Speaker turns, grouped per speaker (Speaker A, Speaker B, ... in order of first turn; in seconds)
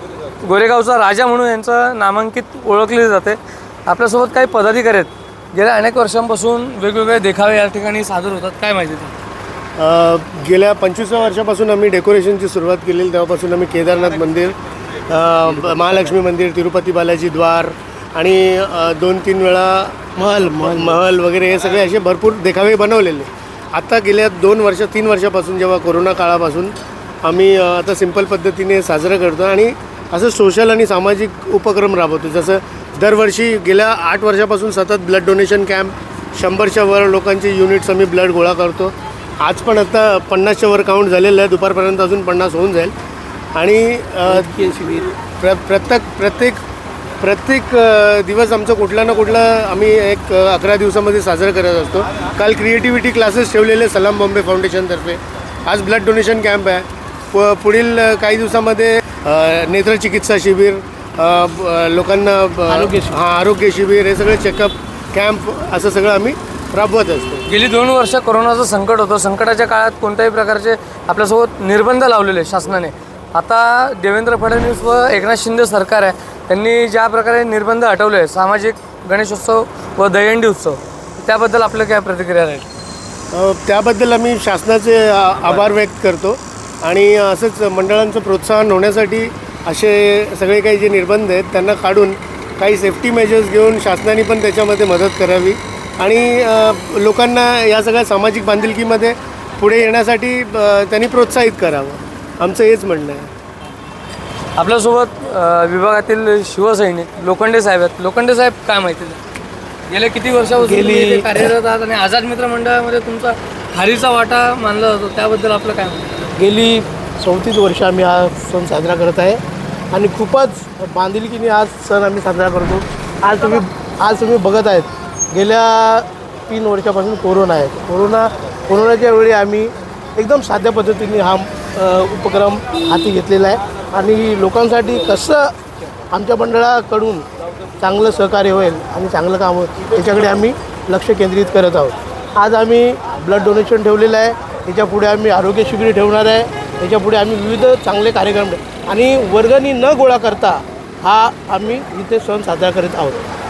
Speaker A: 0.4-9.1, 67.5-82.7, 104.5-109.2, 109.9-116.3
Speaker B: 9.8-14.6, 15.1-42.9, 43.5-44.8, 45.4-46.6, 47.2-67.5, 83.3-103.3
Speaker C: 44.3-45.1, 62.7-63.1, 110.6-111.5, 116.4-119.4, 119.9-135.5, 136.1-137.2, 137.8-153.2